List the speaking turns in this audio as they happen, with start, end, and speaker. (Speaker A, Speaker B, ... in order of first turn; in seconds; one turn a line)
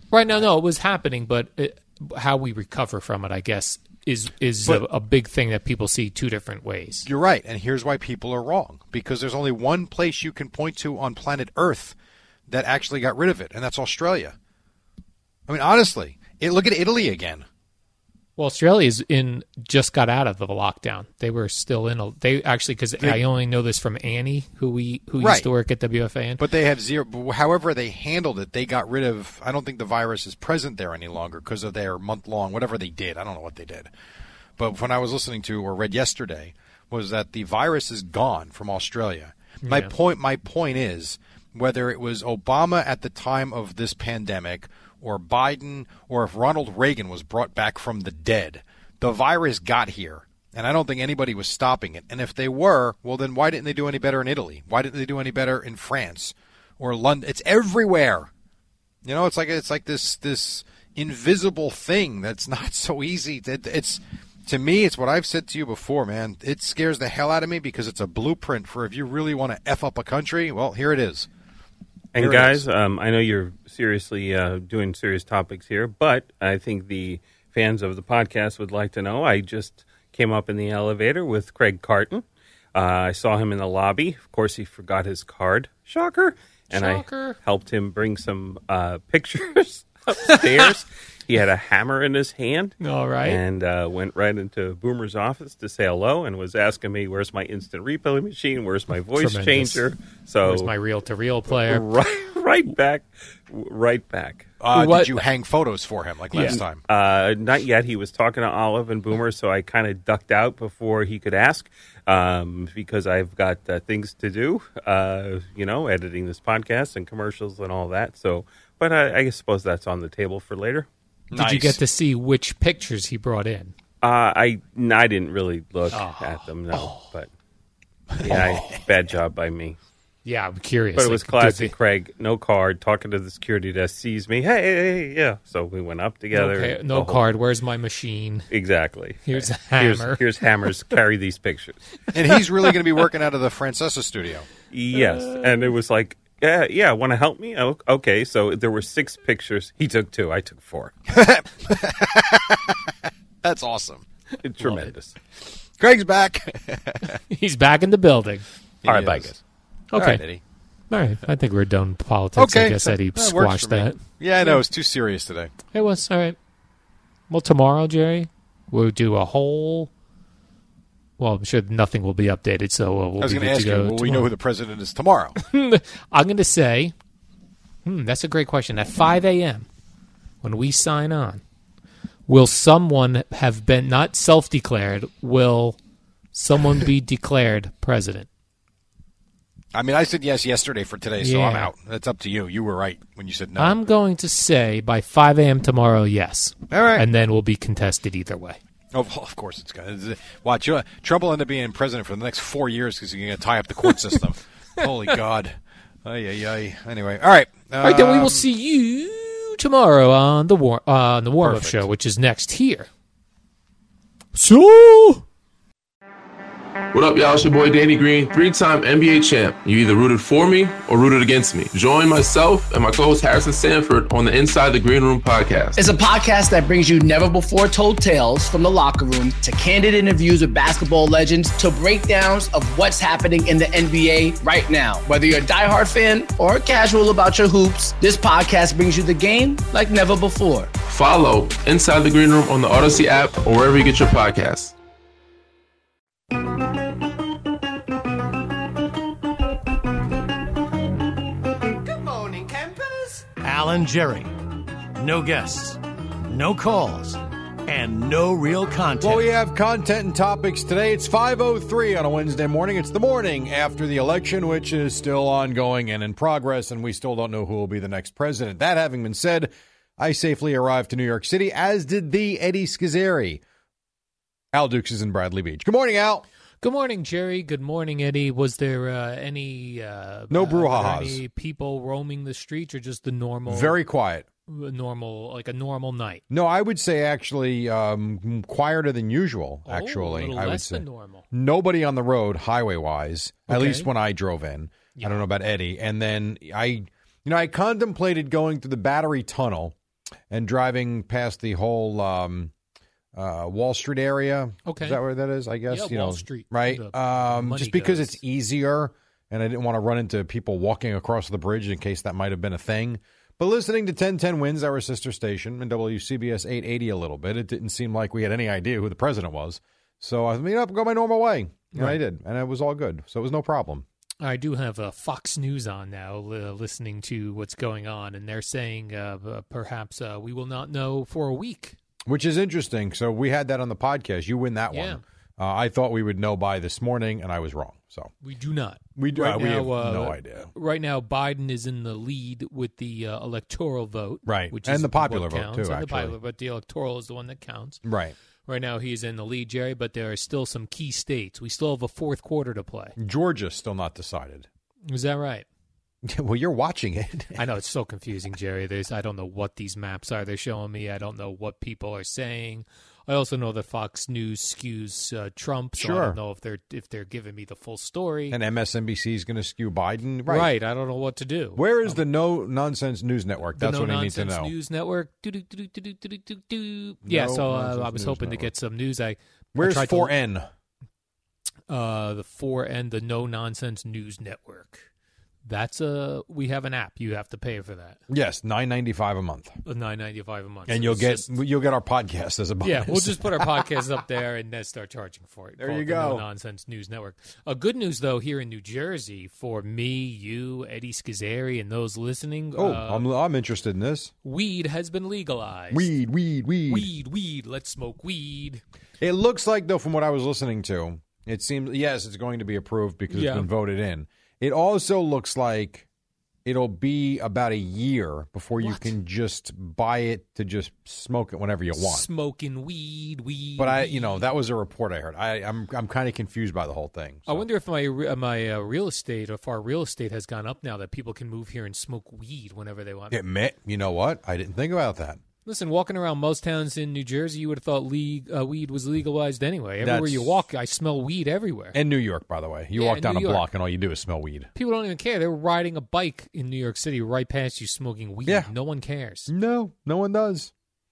Speaker A: 0.1-7.1
Speaker B: 7.1-12.0
Speaker B: 12.5-14.3
Speaker B: 15.5-17.5
Speaker A: 18.4-26.4
Speaker B: 25.2-25.5
Speaker B: 26.4-33.9
Speaker B: 34.6-58.3
Speaker A: 39.6-39.9
Speaker B: 59.0-71.3
Speaker C: 72.2-100.7
Speaker B: 72.2-72.6
Speaker A: 86.7-87.4
Speaker A: 90.2-90.7
Speaker A: 92.8-93.4
Speaker A: 99.2-99.8
Speaker A: 100.4-101.9
Speaker C: 101.5-104.5
Speaker B: 104.6-106.8
Speaker A: 104.7-105.2
Speaker A: 106.3-106.6
Speaker C: 106.9-120.9
Speaker B: 121.3-121.8
Speaker A: 121.3-123.7
Speaker C: 124.0-127.3
Speaker A: 125.9-127.0
Speaker C: 128.2-129.8
Speaker A: 130.2-131.7
Speaker C: 131.0-137.2
Speaker A: 136.3-138.5
Speaker C: 138.5-141.8
Speaker A: 139.3-140.2
Speaker B: 142.1-144.5
Speaker C: 144.7-151.0
Speaker A: 145.0-145.5
Speaker B: 151.1-152.8
Speaker B: 153.4-154.1
Speaker C: 154.4-155.2
Speaker B: 155.8-157.2
Speaker A: 157.3-158.4
Speaker B: 158.8-159.4
Speaker C: 158.8-159.4
Speaker A: 159.9-160.2
Speaker B: 159.9-160.4
Speaker A: 160.9-164.6
Speaker B: 162.4-165.5
Speaker A: 165.7-166.4
Speaker A: 167.3-169.9
Speaker A: 171.2-174.3
Speaker B: 173.2-175.4
Speaker A: 175.4-176.9
Speaker A: 177.8-179.7
Speaker A: 180.4-181.4
Speaker A: 182.3-185.8
Speaker A: 186.3-188.3
Speaker B: 189.7-193.8
Speaker A: 191.2-191.7
Speaker A: 193.6-198.6
Speaker B: 196.7-197.1
Speaker B: 198.9-208.4
Speaker A: 207.8-212.9
Speaker B: 211.4-211.8
Speaker A: 214.3-215.2
Speaker D: 216.9-225.8
Speaker E: 225.8-240.7
Speaker D: 240.8-244.7
Speaker F: 252.0-252.8
Speaker F: 253.3-254.3
Speaker F: 255.0-259.3
Speaker B: 259.0-273.4
Speaker B: 274.5-276.2
Speaker A: 276.6-283.8
Speaker B: 280.3-281.2
Speaker B: 283.5-284.3
Speaker A: 284.5-286.2
Speaker B: 286.3-299.8
Speaker A: 289.7-291.2
Speaker A: 293.5-293.9
Speaker A: 295.0-295.2
Speaker B: 300.3-302.5
Speaker B: 303.1-323.9
Speaker A: 304.7-305.0
Speaker A: 305.7-308.2
Speaker A: 321.7-322.0
Speaker A: 324.2-331.8
Speaker B: 332.1-338.1
Speaker A: 334.7-335.0
Speaker A: 338.2-347.8
Speaker B: 339.0-340.5
Speaker B: 344.3-346.2
Speaker B: 347.9-348.1
Speaker A: 348.5-353.0
Speaker B: 353.0-354.5
Speaker A: 354.9-355.5
Speaker B: 356.1-357.4
Speaker A: 357.4-368.4
Speaker B: 365.8-366.2
Speaker B: 368.3-370.5
Speaker A: 370.3-372.0
Speaker B: 371.6-374.5
Speaker A: 373.6-380.1
Speaker B: 377.1-378.5
Speaker B: 379.6-380.5
Speaker A: 381.7-384.9
Speaker A: 385.5-388.0
Speaker B: 388.1-389.6
Speaker A: 389.6-391.3
Speaker B: 390.7-393.6
Speaker A: 392.6-403.1
Speaker B: 395.6-396.2
Speaker B: 402.6-404.1
Speaker A: 404.2-405.9
Speaker B: 405.7-406.9
Speaker A: 406.7-408.6
Speaker B: 409.0-415.9
Speaker A: 413.1-413.5
Speaker B: 416.4-422.1
Speaker A: 418.6-418.9
Speaker A: 421.7-424.3
Speaker B: 423.6-427.4
Speaker A: 427.3-433.2
Speaker B: 433.1-435.2
Speaker A: 435.5-441.8
Speaker B: 439.8-440.4
Speaker B: 441.7-444.5
Speaker A: 442.8-443.5
Speaker A: 444.6-449.3
Speaker B: 449.3-450.5